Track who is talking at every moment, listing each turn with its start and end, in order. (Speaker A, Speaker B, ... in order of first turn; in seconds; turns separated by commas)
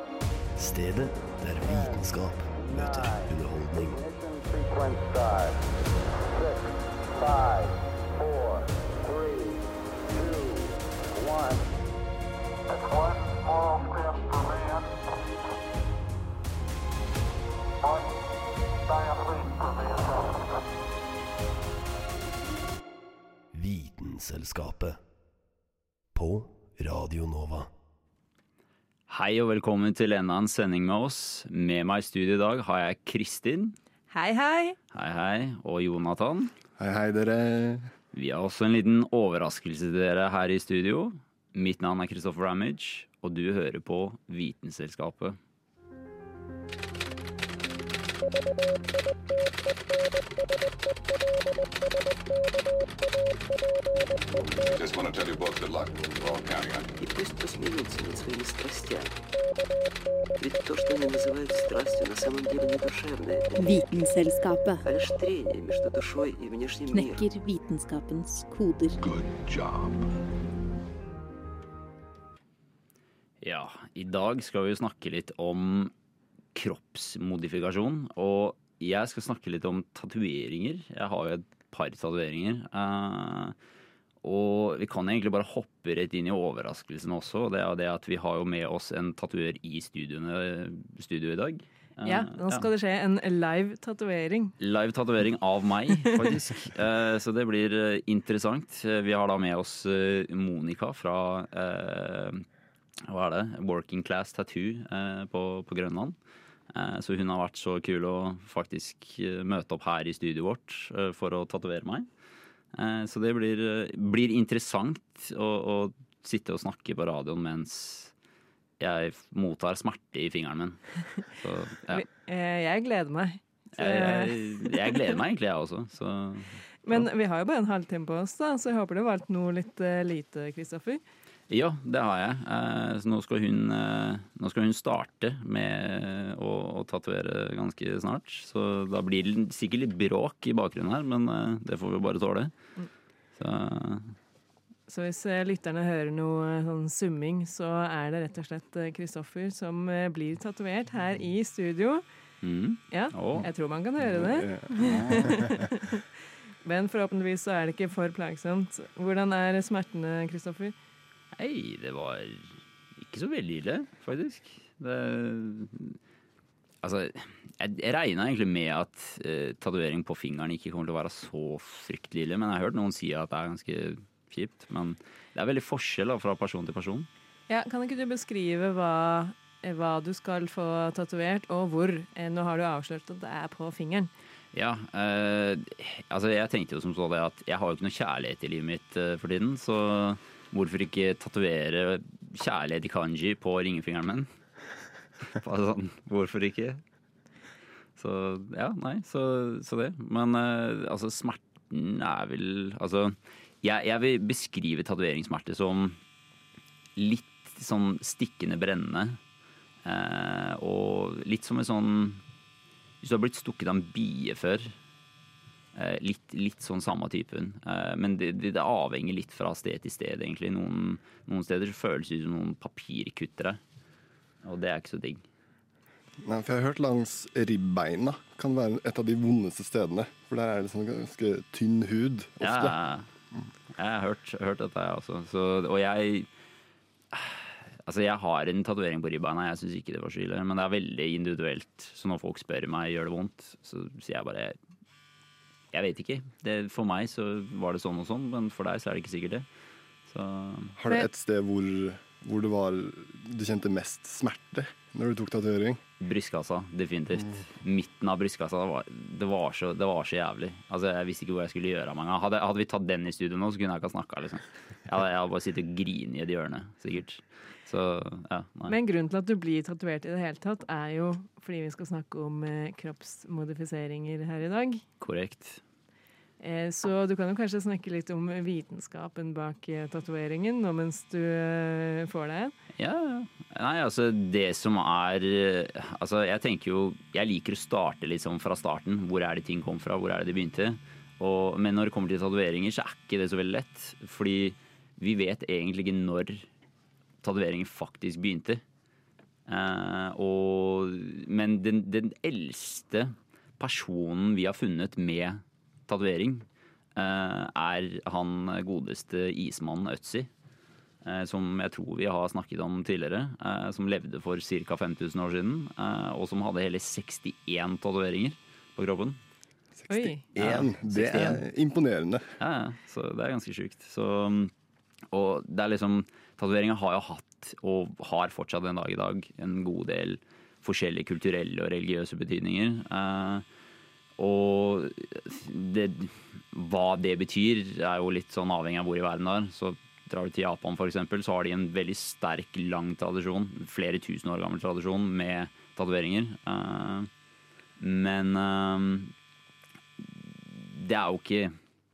Speaker A: 0.6-4.0, Speaker B: 1.6-5.6, Speaker B: 6.3-11.7, Speaker B: 12.7-15.0, Speaker B: 18.9-20.4, Speaker A: 23.5-25.0, Speaker A: 26.1-27.7, Speaker C: 29.1-33.8, Speaker D: 34.1-34.8, Speaker C: 34.9-36.5, Speaker E: 36.8-37.9, Speaker C: 38.1-45.4, Speaker F: 54.6-56.9, Speaker G: 57.0-59.1, Speaker G: 60.4-64.0, Speaker H: 63.6-64.8, Speaker G: 64.8-67.3, Speaker H: 66.9-69.0, Speaker F: 69.1-69.9, Speaker C: 73.4-75.9, Speaker C: 76.5-83.6, Speaker C: 84.2-92.7, Speaker D: 92.0-94.5, Speaker C: 94.6-102.5, Speaker C: 103.1-106.2, Speaker C: 106.7-112.1, Speaker C: 112.7-118.1, Speaker C: 118.8-122.1, Speaker D: 121.9-124.9, Speaker C: 123.8-127.0, Speaker D: 126.9-131.0, Speaker C: 131.5-142.5, Speaker C: 143.4-144.2, Speaker D: 144.9-152.0, Speaker C: 152.4-153.5, Speaker D: 152.9-156.0, Speaker E: 154.0-155.6, Speaker C: 154.8-155.4, Speaker D: 156.6-160.7, Speaker C: 161.4-166.0, Speaker C: 166.8-177.1, Speaker D: 177.5-184.1, Speaker C: 184.5-194.3, Speaker C: 195.3-196.8, Speaker C: 198.0-206.0, Speaker C: 207.0-209.2, Speaker C: 209.8-212.2, Speaker C: 213.0-214.8, Speaker C: 215.8-223.6, Speaker C: 224.4-225.2, Speaker E: 226.2-232.7, Speaker C: 232.4-233.1, Speaker C: 233.8-236.3, Speaker C: 237.1-244.6, Speaker C: 245.7-249.5, Speaker C: 250.1-250.8, Speaker E: 250.8-255.8, Speaker C: 256.0-268.8, Speaker D: 268.7-274.8, Speaker C: 275.0-275.6, Speaker D: 276.4-282.5, Speaker C: 282.8-296.5, Speaker C: 297.2-298.6, Speaker C: 299.5-306.4, Speaker C: 307.0-310.3, Speaker C: 311.0-319.2, Speaker E: 319.8-322.3, Speaker D: 319.9-320.2, Speaker C: 320.4-321.4, Speaker C: 322.4-324.5, Speaker C: 325.1-333.5, Speaker C: 334.2-347.1, Speaker C: 347.8-349.1, Speaker C: 350.0-351.6